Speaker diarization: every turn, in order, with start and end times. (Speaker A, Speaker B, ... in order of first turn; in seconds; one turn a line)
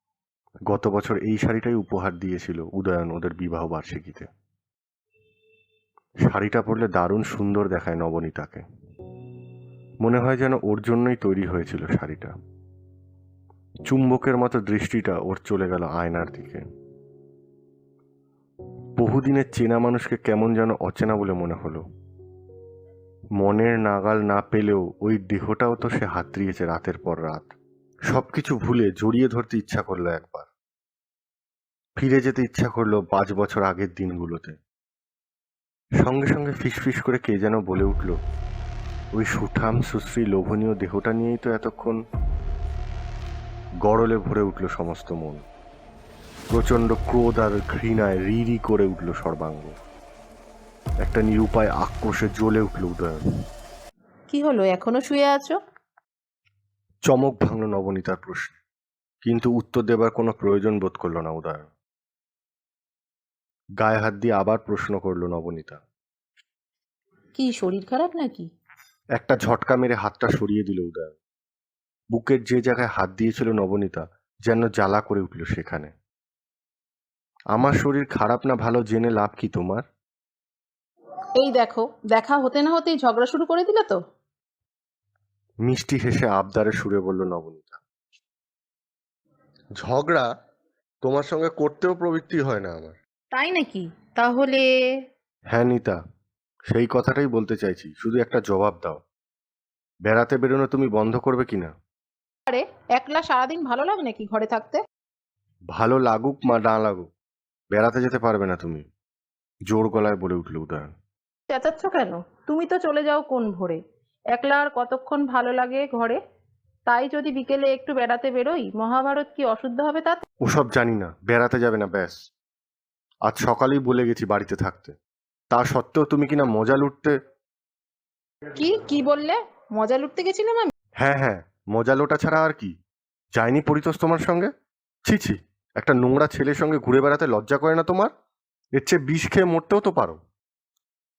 Speaker A: 0.7-4.3
Speaker A: 6.2-8.6
Speaker A: 10.0-12.3
Speaker A: 13.9-16.6
Speaker A: 19.0-21.8
Speaker A: 23.4-27.6
Speaker A: 28.1-30.5
Speaker A: 32.0-34.6
Speaker A: 36.0-38.2
Speaker A: 39.2-42.0
Speaker A: 43.8-45.4
Speaker A: 46.5-49.7
Speaker A: 51.0-53.2
Speaker B: 54.3-55.5
Speaker A: 57.0-58.6
Speaker A: 59.2-61.7
Speaker A: 63.8-65.8
Speaker B: 67.3-68.5
Speaker A: 69.2-71.1
Speaker A: 72.1-75.9
Speaker A: 77.5-79.8
Speaker B: 81.4-84.0
Speaker A: 85.7-87.8
Speaker A: 89.8-90.3
Speaker A: 91.0-93.0
Speaker B: 93.3-94.6
Speaker A: 95.5-96.0
Speaker A: 96.7-99.0
Speaker A: 100.1-101.7
Speaker B: 102.5-104.8
Speaker A: 105.7-107.1
Speaker A: 107.7-108.8
Speaker A: 109.7-110.9
Speaker B: 111.5-113.8
Speaker B: 114.3-116.2
Speaker B: 116.9-120.2
Speaker A: 120.4-122.2
Speaker A: 123.3-125.0
Speaker A: 125.5-127.1
Speaker B: 128.6-130.7
Speaker A: 131.0-132.7
Speaker A: 133.3-134.5
Speaker A: 135.1-138.1
Speaker A: 138.8-140.2